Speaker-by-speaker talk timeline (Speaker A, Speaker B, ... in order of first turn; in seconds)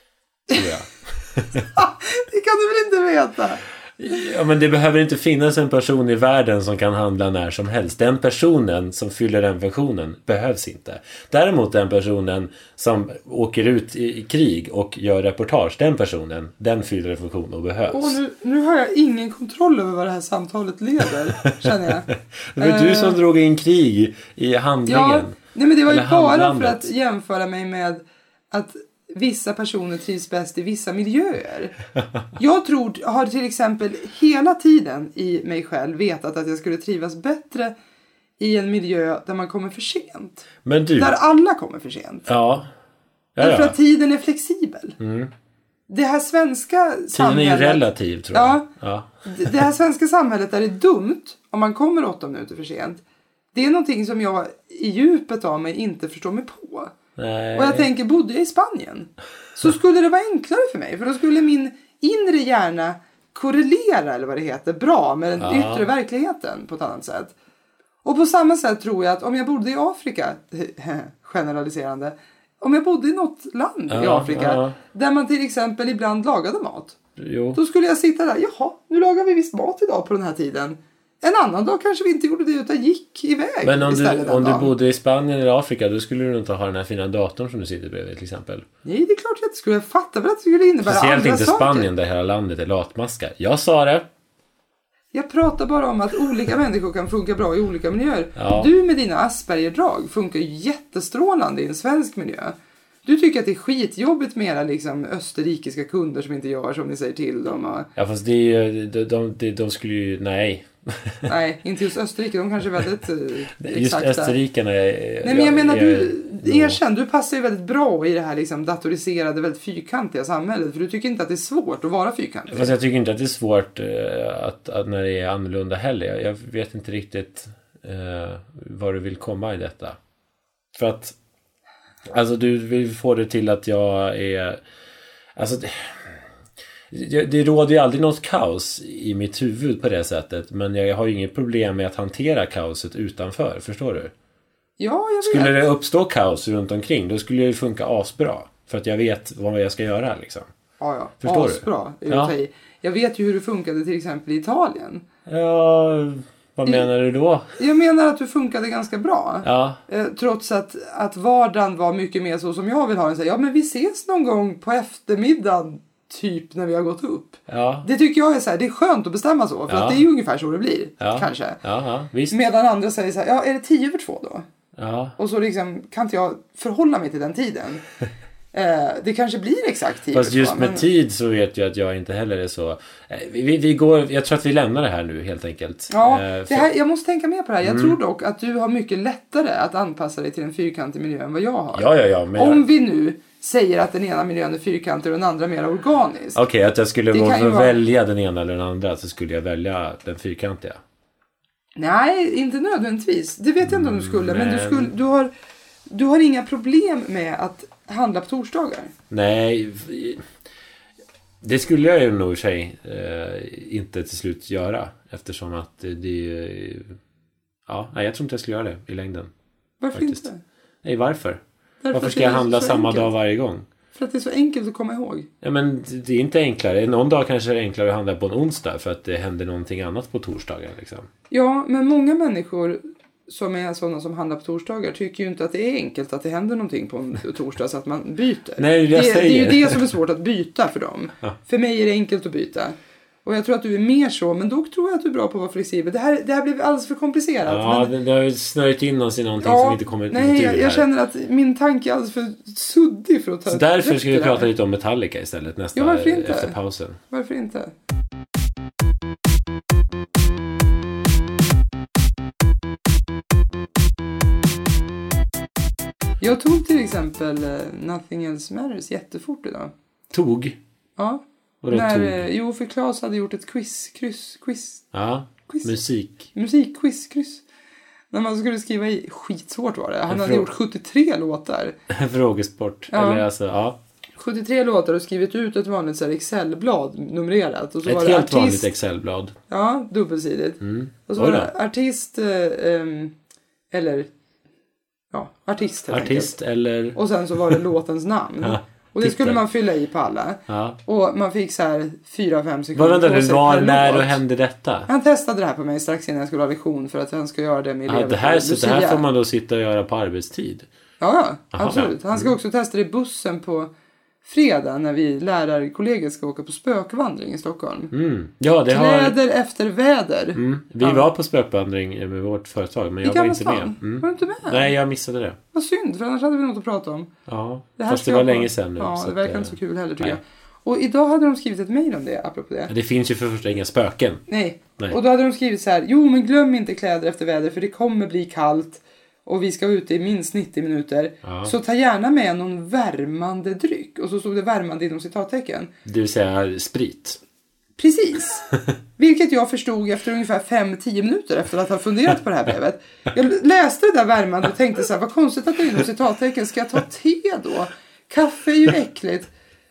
Speaker A: 0.5-1.7, 4.0-18.2, 21.6-26.9, 40.6-41.2, 42.3-42.7, 43.4-43.8, 45.0-45.3, 47.1-49.6, 57.2-57.9, 65.4-65.9, 73.9-74.8, 77.2-77.6, 83.6-88.7, 90.8-94.1, 98.3-98.7, 108.0-111.3, 113.6-116.8, 122.5-130.0, 130.7-131.2, 132.1-134.6, 135.3-136.2, 136.9-144.1, 145.2-150.5, 151.2-152.3, 155.2-157.5, 159.4-159.8, 167.5-167.9, 169.7-170.1, 171.0-172.4, 174.8-175.2, 180.1-186.7, 187.6-188.0, 191.7-192.7, 196.3-200.8, 203.6-204.9, 209.1-210.2, 211.4-217.0, 217.7-219.3, 219.9-220.2, 220.8-223.7, 225.4-231.1, 238.6-239.8, 247.4-250.8, 253.5-257.0, 270.1-270.6, 271.6-272.3, 274.9-276.3, 280.1-280.5, 281.9-283.8, 287.8-289.3, 290.6-291.5, 295.9-297.6, 298.4-299.4, 300.5-300.8, 302.7-304.9, 307.9-310.7, 311.5-312.3, 317.9-319.2, 320.4-325.4, 327.3-330.2, 332.7-334.2, 341.2-341.5, 345.8-347.2
Speaker B: 1.7-3.6, 17.9-23.2, 24.9-31.7, 32.4-37.7, 38.4-40.5, 41.0-42.3, 43.4-45.0, 45.9-48.7, 49.2-53.0, 53.5-56.9, 57.5-67.3, 68.0-77.0, 77.5-84.7, 88.8-91.9, 95.1-107.9, 111.2-114.3, 115.2-122.7, 144.8-145.7, 150.8-155.0, 157.6-171.6, 172.3-174.4, 175.2-177.8, 178.5-180.8, 185.9-196.4, 197.1-197.8, 201.8-205.3, 205.9-208.9, 219.8-220.4, 221.8-223.1, 223.9-225.3, 231.3-247.9, 249.4-254.5, 255.7-256.5, 257.1-257.7, 266.2-269.7, 271.0-274.9, 275.5-275.7, 276.3-277.4, 278.1-281.8, 282.9-283.2, 284.2-288.7, 289.5-293.1, 293.7-294.1, 295.1-296.4, 296.9-304.2, 304.9-309.0, 311.0-313.7, 314.2-317.9, 318.7-321.1, 323.0-324.7, 325.5-327.1, 327.8-332.7, 334.3-345.7, 347.8-359.3